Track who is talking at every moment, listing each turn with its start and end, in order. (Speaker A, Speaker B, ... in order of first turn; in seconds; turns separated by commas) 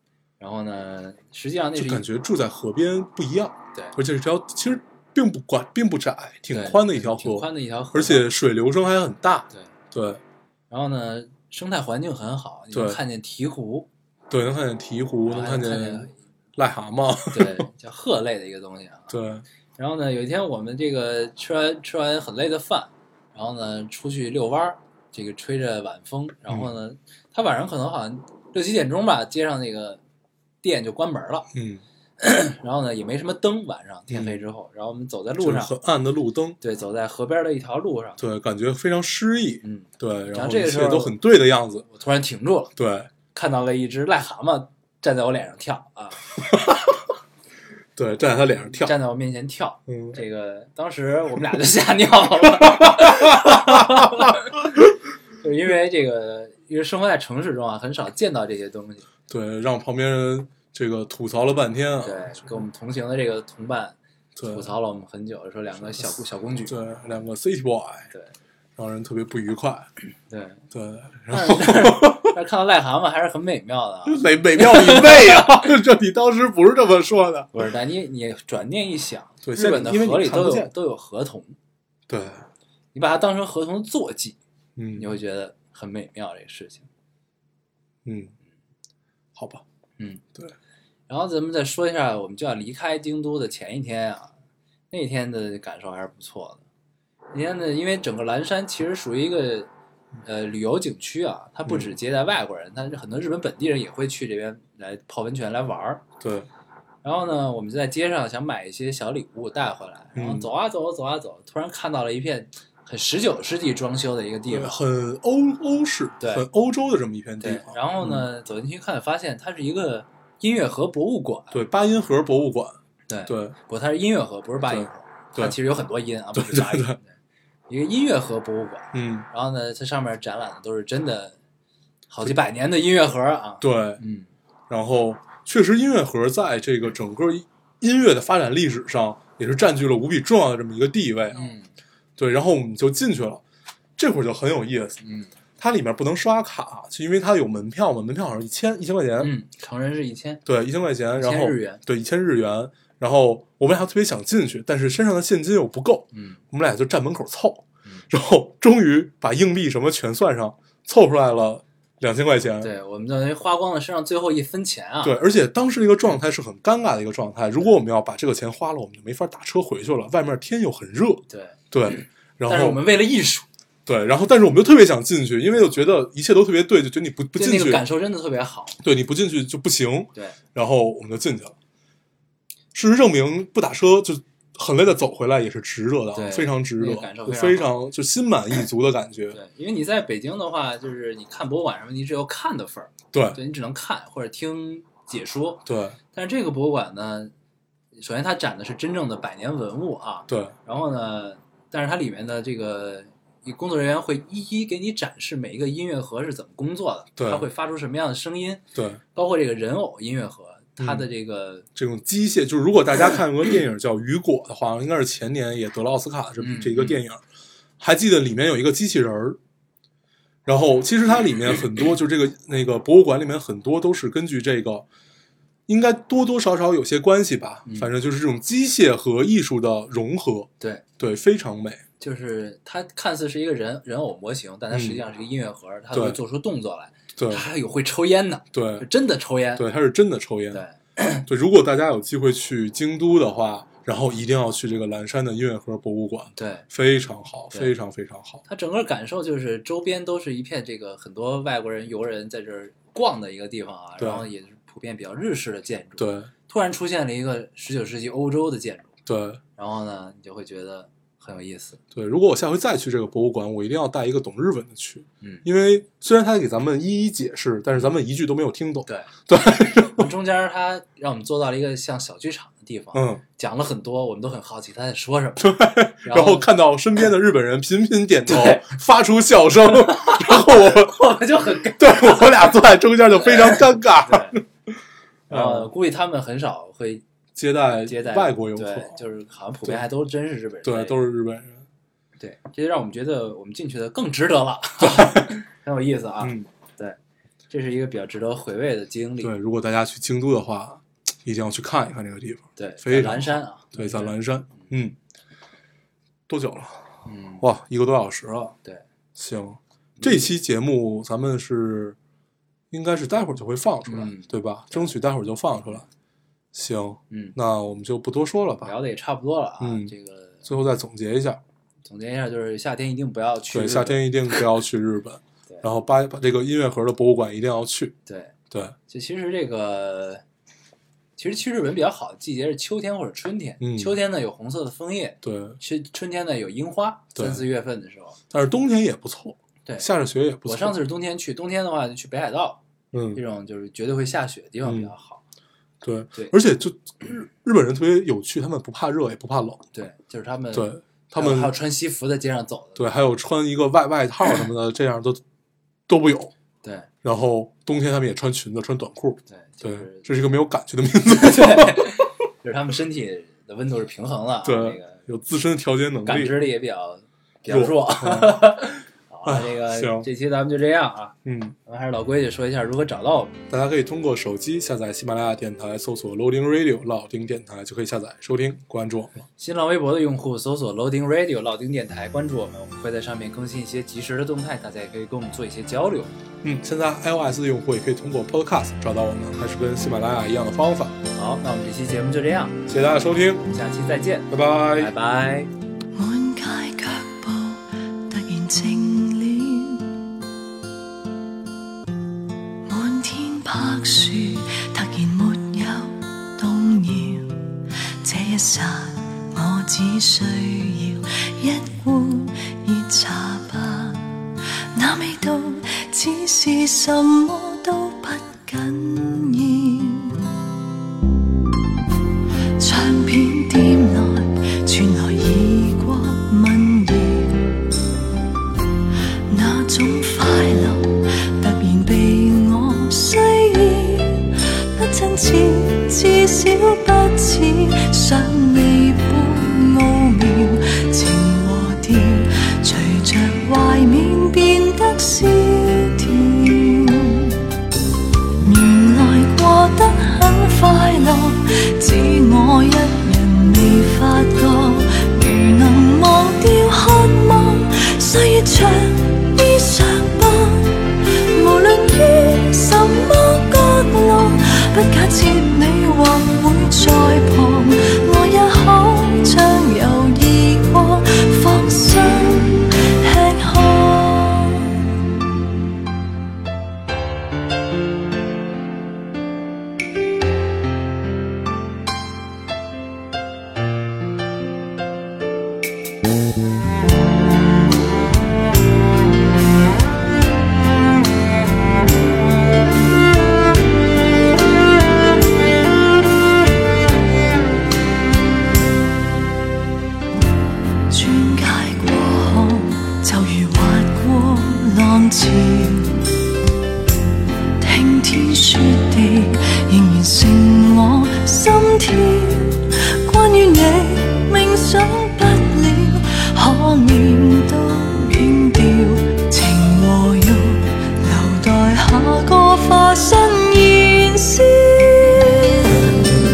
Speaker A: 0.4-2.0, Speaker B: 1.8-10.2, Speaker A: 6.5-8.3, Speaker A: 10.7-13.9, Speaker B: 12.7-13.0, Speaker B: 14.3-17.6, Speaker A: 15.3-16.2, Speaker A: 17.3-19.1, Speaker B: 19.1-19.4, Speaker A: 19.8-30.0, Speaker A: 30.6-31.5, Speaker B: 31.5-31.8, Speaker A: 32.2-35.8, Speaker B: 34.1-34.4, Speaker B: 35.4-36.6, Speaker A: 36.6-38.2, Speaker B: 38.2-41.9, Speaker A: 39.6-41.2, Speaker A: 41.9-42.8, Speaker B: 42.8-43.1, Speaker A: 43.3-46.3, Speaker B: 46.4-47.0, Speaker B: 48.0-49.0, Speaker A: 48.8-54.7, Speaker B: 49.9-50.2, Speaker B: 52.4-54.9, Speaker A: 55.4-59.1, Speaker B: 59.3-62.5, Speaker A: 62.0-66.8, Speaker B: 64.4-64.7, Speaker B: 66.7-68.1, Speaker B: 68.8-69.9, Speaker A: 70.3-70.6, Speaker B: 70.7-72.3, Speaker A: 71.3-75.6, Speaker B: 74.1-77.5, Speaker A: 77.5-81.6, Speaker B: 79.4-80.7, Speaker B: 82.1-82.5, Speaker A: 82.9-84.4, Speaker B: 84.8-85.1, Speaker A: 85.0-86.9, Speaker B: 88.0-88.3, Speaker B: 89.3-89.6, Speaker A: 90.0-90.2, Speaker A: 91.1-94.3, Speaker A: 94.9-96.6, Speaker A: 97.3-99.7, Speaker A: 100.2-106.0, Speaker B: 101.7-101.9, Speaker B: 106.2-106.5, Speaker A: 107.0-114.8, Speaker B: 110.2-110.5, Speaker B: 114.5-118.3, Speaker A: 116.2-116.5, Speaker A: 117.4-121.6, Speaker B: 121.5-123.5, Speaker A: 123.1-127.1, Speaker B: 124.7-125.6, Speaker B: 126.3-127.0, Speaker A: 127.7-131.4, Speaker B: 128.9-129.3, Speaker A: 132.1-134.3, Speaker B: 133.6-134.0, Speaker B: 134.7-141.6, Speaker A: 141.3-141.7, Speaker B: 142.2-143.4, Speaker B: 144.0-145.0, Speaker A: 145.0-145.3, Speaker B: 145.6-149.3, Speaker A: 149.2-150.4, Speaker B: 150.5-162.7, Speaker A: 151.2-151.8, Speaker A: 156.1-156.4, Speaker A: 162.6-165.2, Speaker B: 165.0-172.8, Speaker A: 171.3-173.5, Speaker B: 173.9-177.8, Speaker A: 177.3-178.8, Speaker B: 178.8-181.6, Speaker B: 182.7-189.4, Speaker A: 186.1-187.7, Speaker A: 189.3-197.3, Speaker B: 193.1-193.4, Speaker B: 195.7-196.0, Speaker A: 198.0-208.6, Speaker B: 200.3-200.5, Speaker B: 207.2-207.5, Speaker B: 208.8-209.0, Speaker A: 209.1-211.7, Speaker B: 210.8-211.1, Speaker B: 211.8-217.2, Speaker A: 216.4-217.0, Speaker B: 217.8-219.4, Speaker B: 220.5-224.9, Speaker B: 225.7-231.8, Speaker A: 227.7-227.9, Speaker A: 230.6-230.8, Speaker A: 232.0-239.7, Speaker B: 234.7-235.0, Speaker B: 235.9-236.2, Speaker B: 237.2-237.5, Speaker B: 238.5-238.9, Speaker B: 239.6-240.6, Speaker A: 240.5-241.2, Speaker B: 241.3-248.4, Speaker A: 246.4-246.7, Speaker A: 248.4-259.0, Speaker B: 254.0-254.3, Speaker B: 256.0-256.3, Speaker B: 259.1-259.4, Speaker A: 259.6-261.8, Speaker B: 261.9-270.1, Speaker A: 269.9-276.5, Speaker B: 272.9-273.2, Speaker B: 275.4-281.2, Speaker A: 278.3-278.7, Speaker A: 279.9-282.5, Speaker B: 281.8-284.7, Speaker A: 283.3-284.4, Speaker A: 285.3-287.0, Speaker B: 285.3-285.7, Speaker B: 287.4-289.0, Speaker A: 287.9-291.0, Speaker B: 290.6-291.7, Speaker A: 292.2-297.0, Speaker B: 294.8-295.3, Speaker B: 296.2-296.5, Speaker A: 297.5-299.3, Speaker B: 299.2-305.0, Speaker A: 302.6-304.7, Speaker B: 306.3-306.8, Speaker A: 307.1-307.4, Speaker B: 307.4-308.6, Speaker B: 309.2-312.0, Speaker A: 310.0-310.3, Speaker B: 312.7-315.9, Speaker A: 313.9-314.9, Speaker B: 316.5-318.8, Speaker A: 317.1-317.4, Speaker A: 318.6-320.5, Speaker B: 319.6-319.9, Speaker B: 320.4-321.4, Speaker A: 321.9-324.1, Speaker B: 323.5-328.0, Speaker A: 328.1-328.4, Speaker A: 328.9-330.2, Speaker A: 331.2-338.2, Speaker B: 333.6-334.0, Speaker B: 335.2-335.6, Speaker B: 337.2-337.4, Speaker B: 338.3-340.8, Speaker A: 340.4-342.6, Speaker B: 342.9-343.2, Speaker A: 343.1-345.2, Speaker B: 344.6-344.9, Speaker B: 345.8-349.6, Speaker A: 349.7-352.9, Speaker B: 350.5-351.6, Speaker B: 352.8-355.2, Speaker B: 355.9-356.3, Speaker A: 356.6-356.9, Speaker B: 357.0-361.9, Speaker A: 359.3-360.1, Speaker A: 361.1-365.0, Speaker B: 364.4-366.4, Speaker A: 366.1-373.4, Speaker B: 367.5-368.5, Speaker B: 369.2-370.1, Speaker B: 371.2-371.6, Speaker B: 373.5-379.3, Speaker A: 379.4-386.1, Speaker B: 386.4-391.0, Speaker A: 391.2-392.6, Speaker B: 392.7-393.5, Speaker A: 393.5-395.5, Speaker B: 394.3-394.9, Speaker C: 395.9-399.9, Speaker C: 402.7-414.1, Speaker C: 414.7-420.3, Speaker C: 422.6-427.6, Speaker C: 429.3-447.4, Speaker C: 448.4-474.9, Speaker C: 500.9-506.1, Speaker C: 507.6-525.6